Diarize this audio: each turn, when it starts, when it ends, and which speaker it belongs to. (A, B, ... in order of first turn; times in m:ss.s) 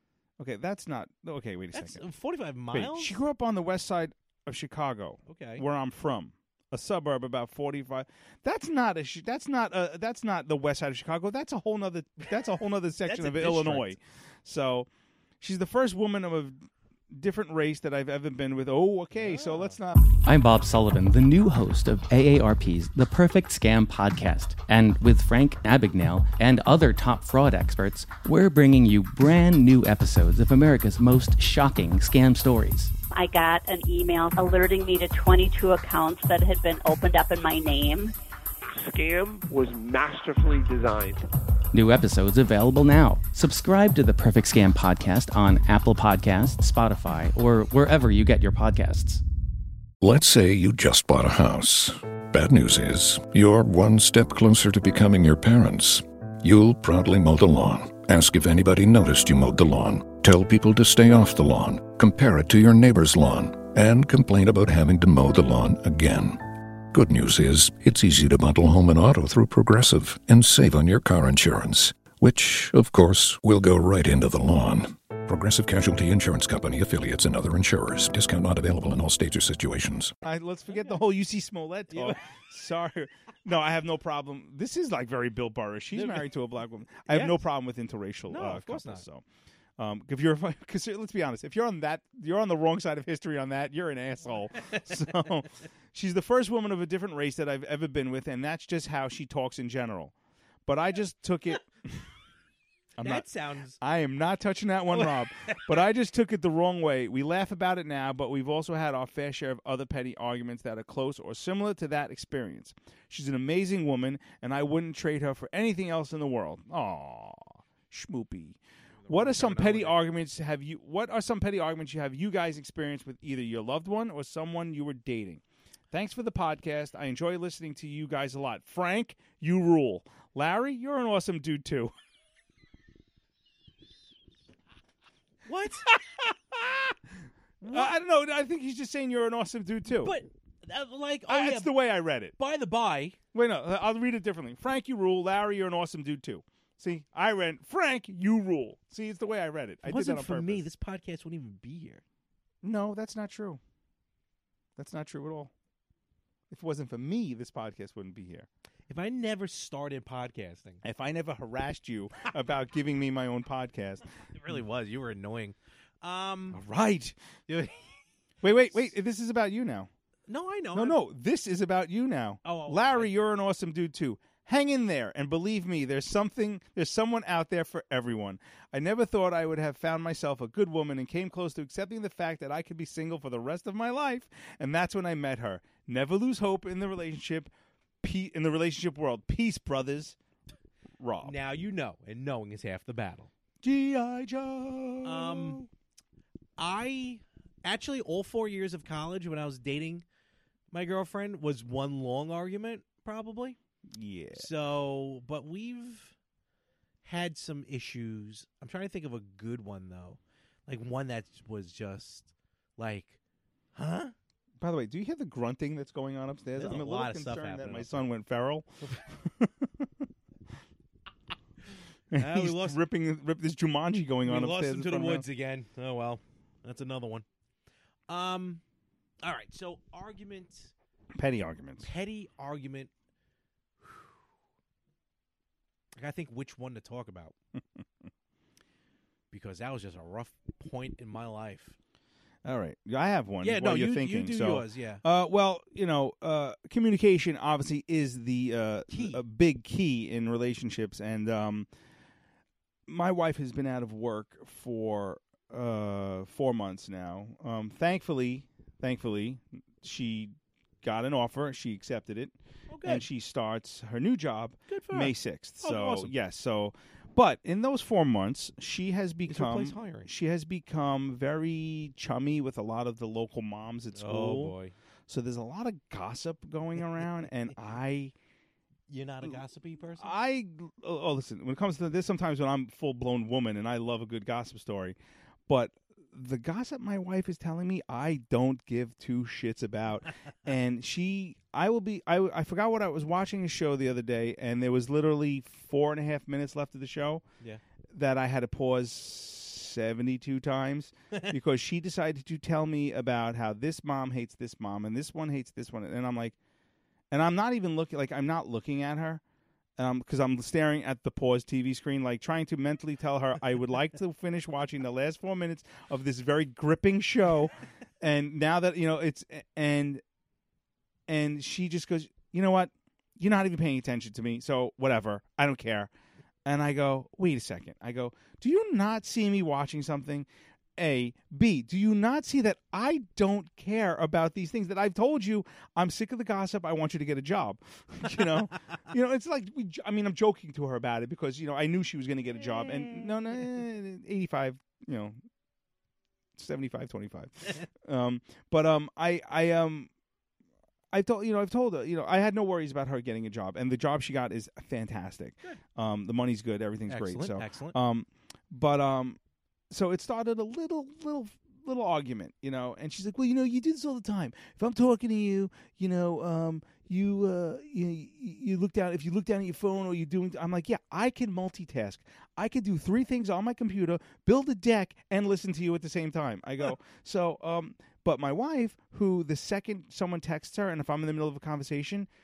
0:00.4-0:02.0 A
0:01.7-0:03.2 B
0:02.7-0:14.9 A
0:05.3-0:05.6 B
0:13.0-0:14.0 B
0:15.4-0:20.0 A
0:19.2-0:19.8 B
0:20.2-0:32.9 C
0:33.1-0:38.1 D
0:38.7-0:41.2 E
0:41.7-0:49.2 C
0:50.0-1:20.1 F
1:20.2-1:29.2 A
1:20.7-1:21.0 B
1:21.9-1:22.2 B
1:25.9-1:26.3 B
1:27.1-1:27.4 B
1:28.3-1:29.0 B
1:29.8-1:40.1 A
1:34.6-1:35.0 B
1:40.7-1:42.0 A
1:43.0-1:43.3 A
1:43.0-1:43.8 B
1:43.8-1:58.6 A
1:44.9-1:45.8 B
1:59.0-2:00.0 B
1:59.1-2:05.4 A
2:05.9-2:11.9 A
2:15.4-2:15.9 B
2:15.9-2:17.0 A
2:17.6-2:18.0 B
2:17.7-2:20.1 A
2:19.9-2:21.7 B
2:21.3-2:22.4 A
2:22.4-2:23.2 B
2:23.3-2:30.6 A
2:29.8-2:32.0 B
2:32.6-2:33.6 A
2:34.8-2:35.5 A
2:36.5-2:38.5 A
2:38.9-2:40.8 B
2:40.8-2:44.0 A
2:44.4-2:46.6 B
2:46.5-2:47.2 A
2:47.5-2:47.8 B
2:48.4-2:49.9 A
2:48.4-2:48.9 B
2:50.3-2:51.0 B
2:50.7-3:07.5 A
2:52.4-2:53.1 B
3:08.0-3:10.2 A
3:11.0-3:11.4 A
3:11.2-3:13.3 B
3:13.6-3:15.7 A
3:15.0-3:15.7 B
3:16.6-3:20.0 B
3:20.7-3:23.6 B
3:23.9-3:24.5 A
3:24.4-3:26.2 B
3:27.0-3:33.2 B
3:33.8-3:34.1 B
3:34.6-3:39.9 A
3:36.6-3:37.9 B
3:42.1-3:45.2 A
3:42.1-3:42.8 B
3:44.2-3:47.3 B
3:48.1-3:48.6 B
3:49.2-3:50.7 B
3:51.2-3:51.9 A
3:51.8-3:52.9 B
3:53.8-3:54.1 B
3:56.0-3:57.3 B
3:59.3-4:01.8 B
4:02.4-4:11.7 A
4:03.4-4:05.0 B
4:08.9-4:09.2 B
4:12.9-4:34.6 A
4:22.7-4:23.0 B
4:24.7-4:26.1 B
4:29.3-4:30.1 B
4:34.0-4:34.7 B
4:35.1-4:38.1 A
4:38.9-4:40.1 B
4:40.0-4:45.0 A
4:45.5-4:57.2 A
4:57.9-5:06.4 A
5:07.1-5:09.2 A
5:09.8-5:20.0 A
5:21.1-5:25.9 A
5:26.5-5:45.2 A
5:42.4-5:43.4 B
5:46.4-5:49.9 A
5:50.9-5:59.2 A
5:56.9-5:57.8 B
5:59.7-6:22.1 A